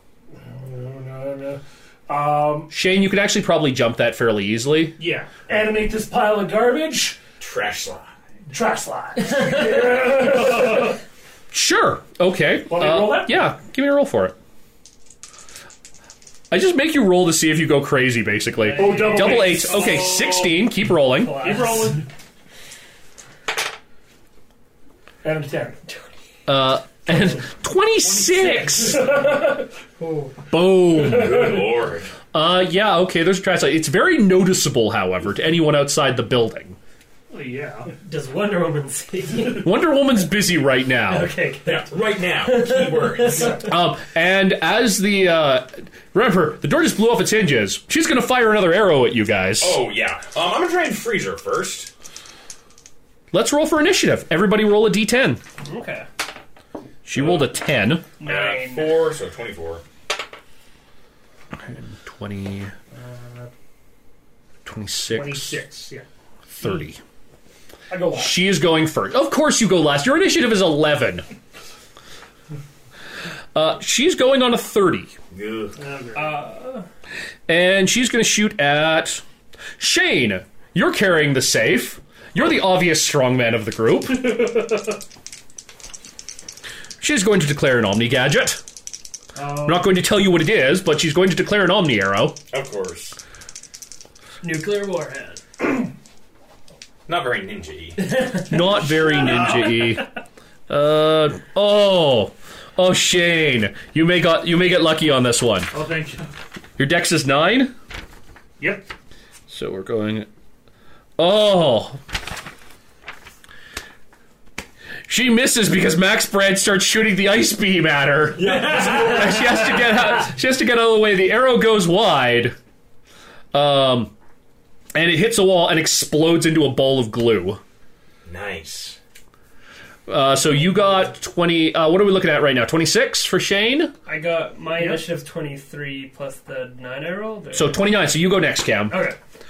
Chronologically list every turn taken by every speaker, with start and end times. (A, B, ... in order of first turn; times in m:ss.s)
0:00.4-0:02.7 A
0:02.7-0:05.0 B
0:05.0-0:05.3 C
0:05.3-0:07.2 A
0:07.4-0:08.1 D
0:08.5-0:10.9 A
0:11.5-0:14.4 B
0:12.7-0:13.5 A
0:16.5-0:21.6 B
0:18.6-0:22.0 E
0:18.8-0:19.8 A
0:19.1-0:20.5 C
0:21.4-0:22.1 C
0:25.2-0:25.8 A
0:26.5-0:29.2 B
0:27.1-0:27.4 C
0:28.0-0:29.3 C
0:29.1-0:29.6 A
0:30.0-0:30.5 E
0:30.5-0:31.6 B
0:30.9-0:32.1 D
0:32.3-0:36.8 B
0:37.3-0:37.9 C
0:37.9-0:39.7 E
0:39.6-0:41.3 B
0:41.1-0:43.7 E
0:41.7-0:43.7 D
0:43.6-0:49.8 B
0:49.6-0:51.9 D
0:53.3-0:55.4 B
0:55.6-0:56.1 E
0:57.0-0:58.1 B
0:58.2-0:59.1 E
0:58.2-0:59.8 D
1:01.6-1:02.7 B
1:02.9-1:03.5 C
1:04.7-1:05.5 B
1:05.1-1:06.1 C
1:06.6-1:07.0 B
1:07.9-1:08.4 A
1:08.1-1:11.3 B
1:13.6-1:15.1 B
1:15.3-1:15.8 D
1:15.8-1:16.4 C
1:16.1-1:16.8 E
1:17.5-1:19.2 B
1:19.8-1:24.5 B
1:27.0-1:28.6 B
1:29.4-1:29.9 C
1:29.6-1:32.4 B
1:32.5-1:33.2 D
1:34.4-1:35.8 E
1:37.1-1:38.1 D
1:38.0-1:39.9 E
1:38.5-1:40.1 B
1:40.7-1:45.7 B
1:45.7-1:46.3 C
1:46.8-1:47.7 B
1:48.6-1:48.9 C
1:49.5-1:50.3 B
1:51.2-1:52.0 B
1:55.1-2:02.6 B
1:58.4-1:59.6 D
2:03.5-2:04.1 B
2:04.9-2:07.6 B
2:08.3-2:09.0 D
2:10.1-2:13.9 B
2:14.1-2:17.8 E
2:14.8-2:15.1 C
2:17.5-2:19.0 B
2:18.9-2:19.2 E